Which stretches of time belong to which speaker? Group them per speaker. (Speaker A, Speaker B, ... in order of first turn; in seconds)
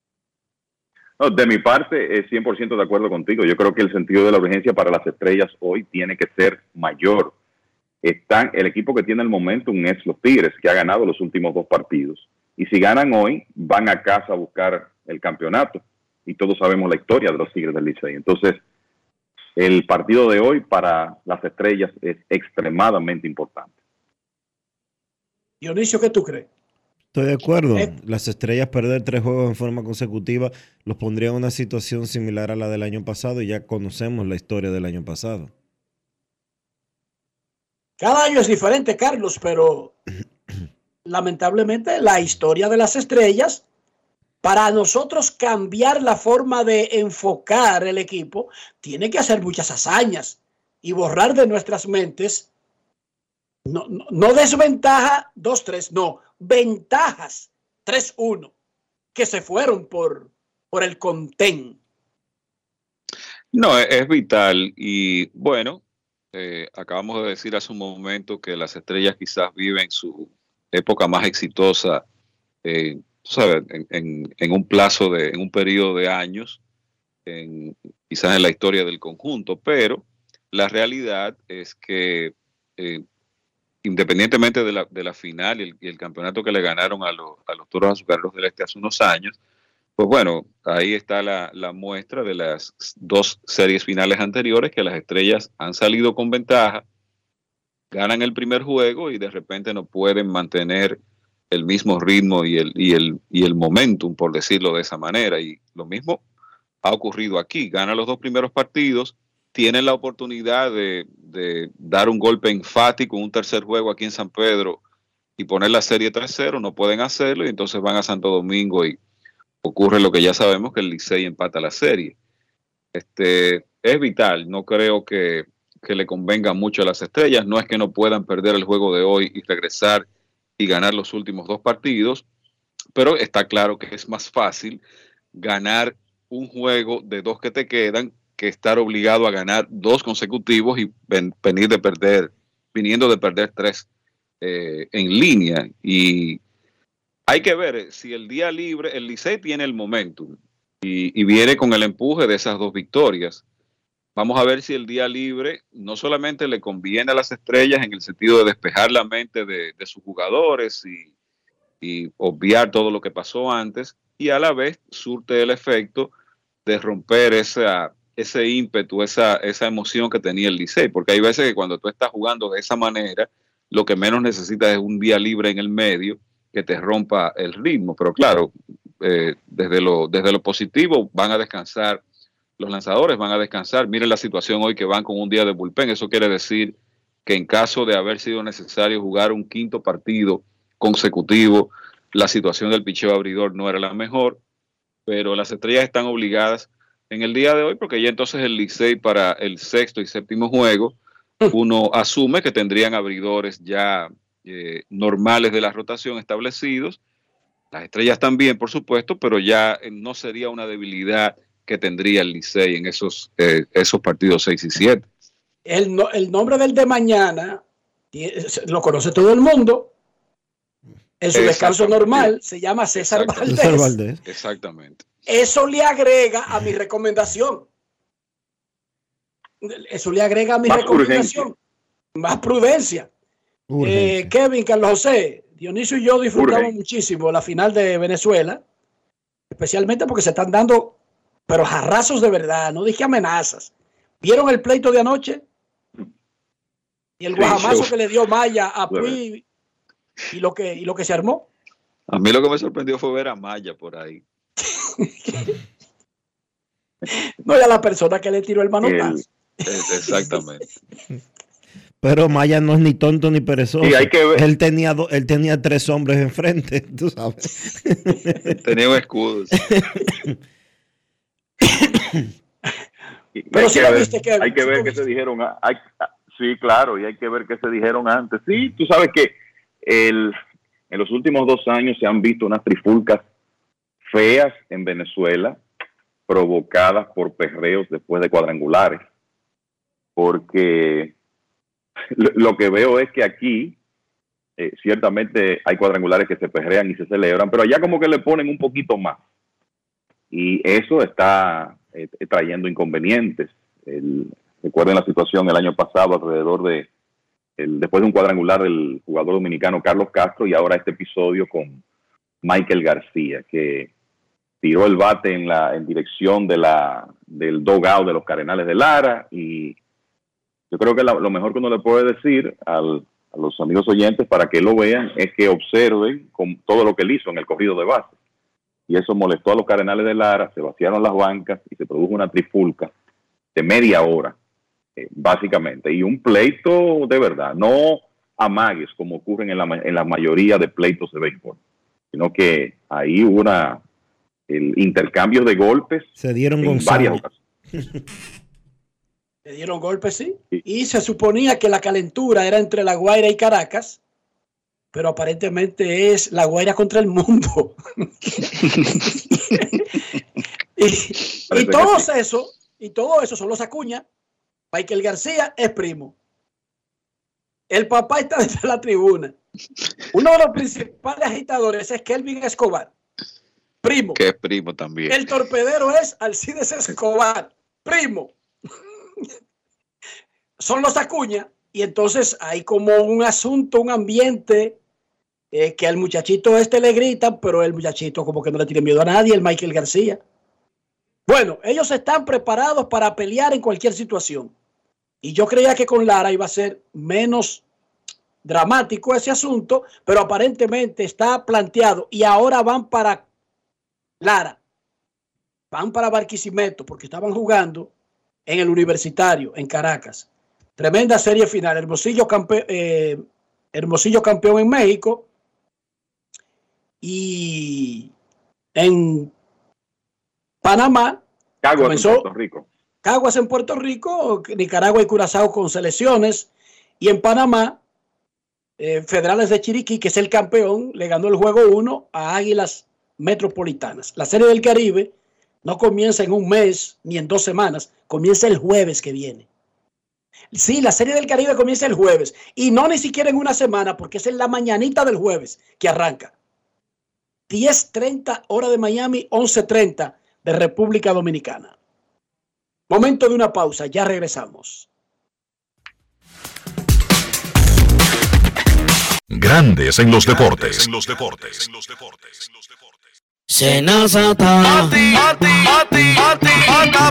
Speaker A: 1.2-7.3, 8.0-18.6, 19.6-23.7, 230.7-231.5, 236.3-236.7, 247.3-247.9, 258.8-259.2, 263.8-264.4, 273.4-279.3, 279.8-280.4, 280.9-283.2, 284.1-285.6, 286.3-289.0, 290.2-291.1, 292.1-293.8, 294.6-299.2, 300.3-306.9, 307.6-311.8, 312.4-313.9, 314.6-319.7, 320.7-328.1, 328.9-332.9, 333.5-334.4, 335.0-341.6, 342.1-343.8, 344.5-346.1, 346.6-347.3, 361.5-362.1, 421.6-422.6
Speaker B: 25.6-26.5, 38.0-39.9, 41.0-43.6, 44.4-52.5, 53.6-58.5, 59.1-61.8, 215.7-217.6, 218.1-219.9, 221.2-223.9, 225.3-227.7, 229.6-231.5, 232.2-233.1, 233.8-238.6, 239.5-240.9, 241.5-245.4, 247.2-249.4, 250.3-251.4, 255.0-255.5, 257.4-259.2, 273.5-275.0, 349.4-354.0, 354.9-357.8, 360.8-364.0, 364.7-366.1, 367.7-369.3, 370.1-372.9, 373.8-374.2, 375.1-378.3, 380.6-384.8, 385.5-390.2, 391.3-394.5, 395.2-397.6, 398.4-403.2, 404.2-404.6, 405.7-407.9, 408.5-410.2, 410.8-413.2, 413.7-415.2, 417.0-418.1, 418.8-419.3, 420.6-421.2, 421.8-422.2, 423.0-426.5, 427.0-427.8, 428.8-435.1, 435.6-439.4, 440.5-446.3, 447.5-451.7, 452.9-454.9
Speaker C: 27.1-35.5, 223.4-224.2, 233.7-234.3, 262.0-268.5, 269.7-270.3, 346.2-347.2
Speaker D: 63.5-65.8, 66.3-72.0, 72.6-76.6, 77.3-83.0, 83.8-89.3, 90.0-96.8, 97.9-101.0, 101.5-106.2, 106.8-114.8, 115.4-119.0, 119.6-122.1, 122.9-130.1, 130.6-132.2, 132.9-134.8, 135.3-143.8, 144.4-146.4, 147.3-153.4, 154.2-161.1, 161.8-166.1, 166.7-182.0, 182.6-186.7, 187.2-194.4, 195.1-201.0, 201.5-207.0, 207.7-215.1, 221.3-222.3, 222.9-223.4, 224.3-225.1, 252.1-254.2, 259.6-260.6, 268.6-269.5, 374.1-375.2
Speaker E: 459.3-462.6
Speaker F: 463.5-465.2, 466.4-466.7